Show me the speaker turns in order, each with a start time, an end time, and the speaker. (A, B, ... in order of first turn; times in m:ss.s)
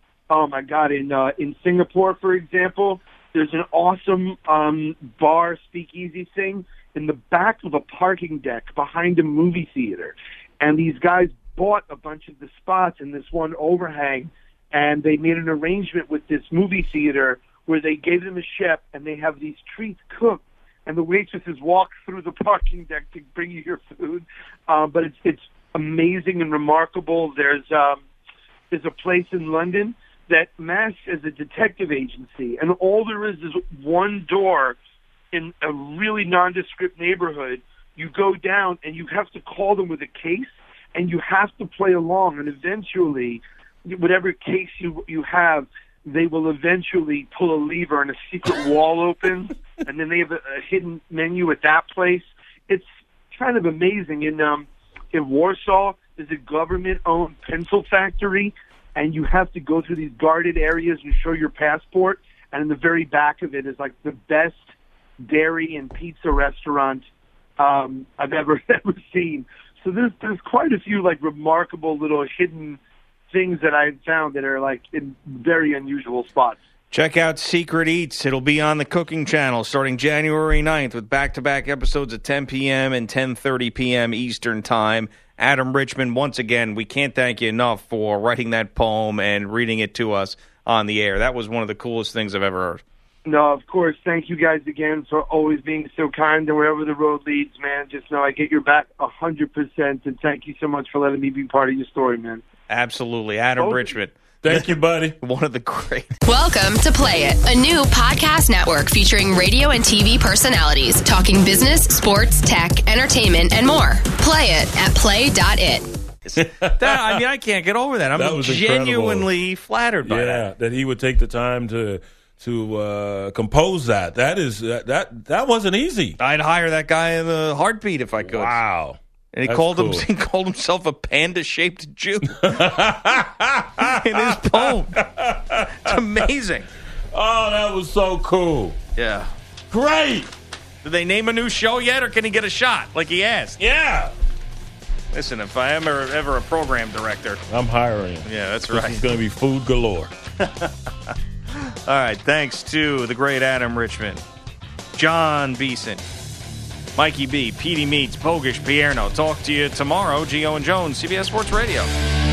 0:00.3-0:28.0 A
0:28.7-0:34.8 A
0:35.3-1:04.6 A
1:05.2-1:07.0 A
1:07.6-1:12.8 A
1:13.3-1:16.6 A
1:16.9-1:32.8 B
1:33.2-1:42.4 A
1:42.7-1:44.7 B
1:43.6-1:43.9 A
1:44.4-1:45.2 C
1:45.2-1:46.1 B
1:46.3-1:55.8 D
1:56.2-2:00.4 B
1:56.4-1:57.2 C
1:58.2-1:59.3 C
2:00.0-2:06.2 C
2:06.2-2:08.6 B
2:08.2-2:10.0 C
2:09.3-2:12.6 B
2:12.3-2:16.0 C
2:13.8-2:15.0 B
2:15.8-2:16.7 B
2:17.1-2:18.8 C
2:19.0-2:19.3 B
2:19.7-2:20.3 C
2:20.8-2:23.6 B
2:23.6-2:24.1 C
2:25.1-2:27.4 B
2:27.5-2:30.1 C
2:28.2-2:29.0 B
2:30.4-2:30.7 B
2:31.8-2:34.2 B
2:34.9-2:36.0 B
2:37.0-2:41.9 B